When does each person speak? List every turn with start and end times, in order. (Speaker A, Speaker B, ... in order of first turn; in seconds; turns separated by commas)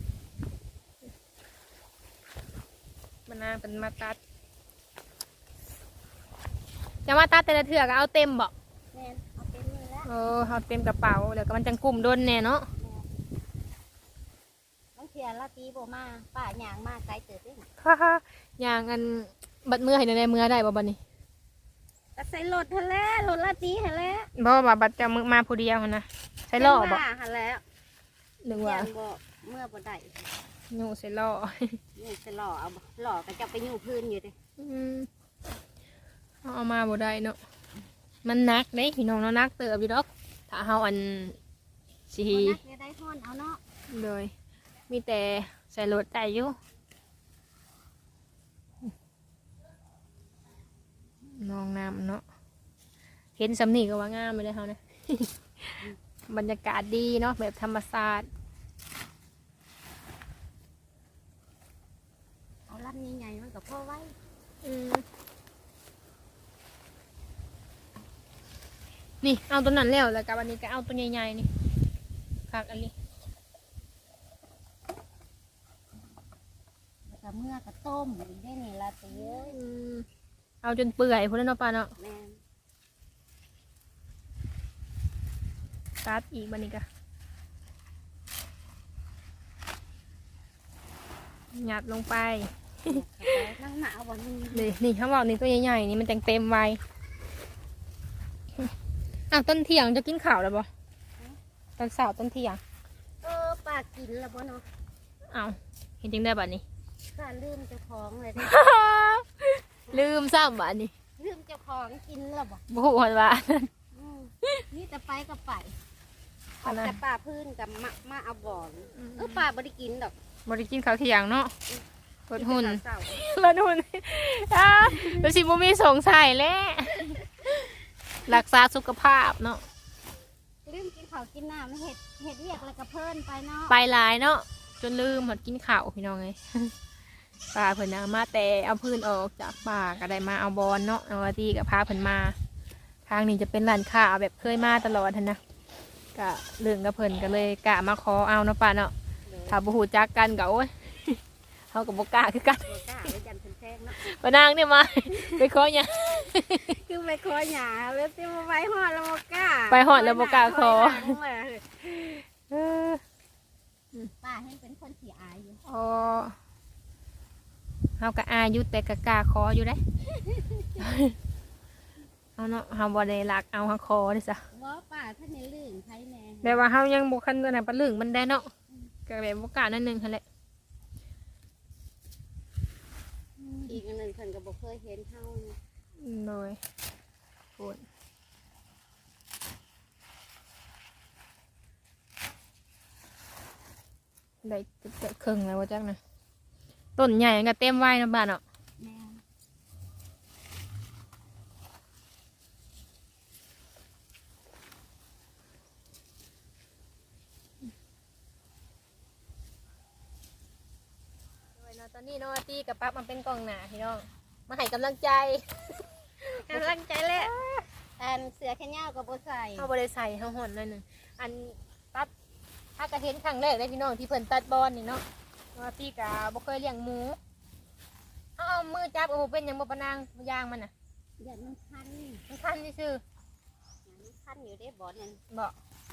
Speaker A: 3.3-4.2, Speaker A: 7.1-8.5, Speaker B: 8.9-10.1, Speaker A: 10.1-12.7, Speaker B: 12.8-13.1, Speaker B: 15.0-17.7, Speaker A: 17.8-21.0, Speaker B: 22.1-24.3, Speaker A: 24.4-27.0, Speaker B: 26.6-27.6, Speaker A: 28.4-28.9, Speaker B: 28.5-30.2, Speaker A: 30.7-31.8, Speaker B: 32.0-34.4, Speaker A: 34.6-35.1, Speaker A: 36.4-37.4, Speaker A: 38.2-41.4, Speaker A: 42.1-42.6, Speaker B: 42.3-43.6, Speaker A: 43.9-44.3, Speaker A: 44.9-46.5, Speaker A: 51.3-52.2, Speaker A: 53.4-55.8, Speaker A: 56.3-58.3, Speaker B: 62.7-64.1, Speaker A: 64.6-65.0, Speaker A: 69.2-71.5, Speaker A: 72.5-72.9, Speaker B: 77.1-79.6, Speaker A: 79.1-80.0, Speaker A: 80.6-81.9, Speaker B: 82.0-82.4, Speaker A: 86.0-86.8, Speaker A: 91.5-93.4, Speaker B: 92.9-94.7, Speaker A: 94.5-96.8, Speaker A: 99.3-100.7, Speaker A: 101.8-102.6, Speaker B: 103.2-104.7, Speaker A: 105.3-106.6, Speaker B: 107.1-108.5, Speaker A: 108.4-110.9, Speaker B: 111.2-112.6, Speaker A: 112.7-113.7, Speaker B: 114.0-115.7, Speaker B: 116.6-120.1, Speaker A: 116.6-117.0, Speaker A: 119.0-119.4, Speaker A: 120.5-121.5, Speaker A: 122.3-127.7, Speaker B: 122.3-123.2, Speaker B: 124.8-125.4, Speaker A: 128.2-129.6, Speaker B: 130.6-133.8, Speaker A: 133.7-136.7, Speaker A: 137.5-142.3, Speaker A: 143.1-145.4, Speaker A: 146.1-148.9, Speaker B: 149.3-149.6, Speaker A: 149.5-151.2, Speaker A: 151.7-152.8, Speaker B: 152.6-154.0, Speaker A: 154.0-156.7, Speaker B: 156.7-162.0, Speaker A: 159.7-161.2, Speaker A: 161.9-163.0, Speaker B: 164.2-165.6, Speaker A: 165.7-166.3, Speaker A: 168.0-169.8, Speaker B: 170.1-170.8, Speaker A: 170.8-171.1, Speaker A: 172.4-174.4, Speaker B: 174.5-176.6, Speaker A: 176.4-178.5, Speaker A: 179.1-180.2, Speaker A: 183.4-183.8, Speaker B: 183.7-185.6, Speaker A: 186.0-186.6, Speaker A: 187.6-187.8, Speaker A: 194.4-196.0, Speaker A: 197.0-198.4, Speaker B: 198.8-199.2, Speaker A: 211.6-215.4, Speaker A: 216.2-217.7, Speaker B: 216.5-217.3, Speaker B: 218.0-219.7, Speaker A: 219.6-222.1, Speaker A: 222.8-225.0, Speaker A: 225.5-227.2, Speaker A: 228.4-230.7, Speaker B: 231.2-232.2, Speaker A: 232.3-233.0, Speaker B: 233.9-235.2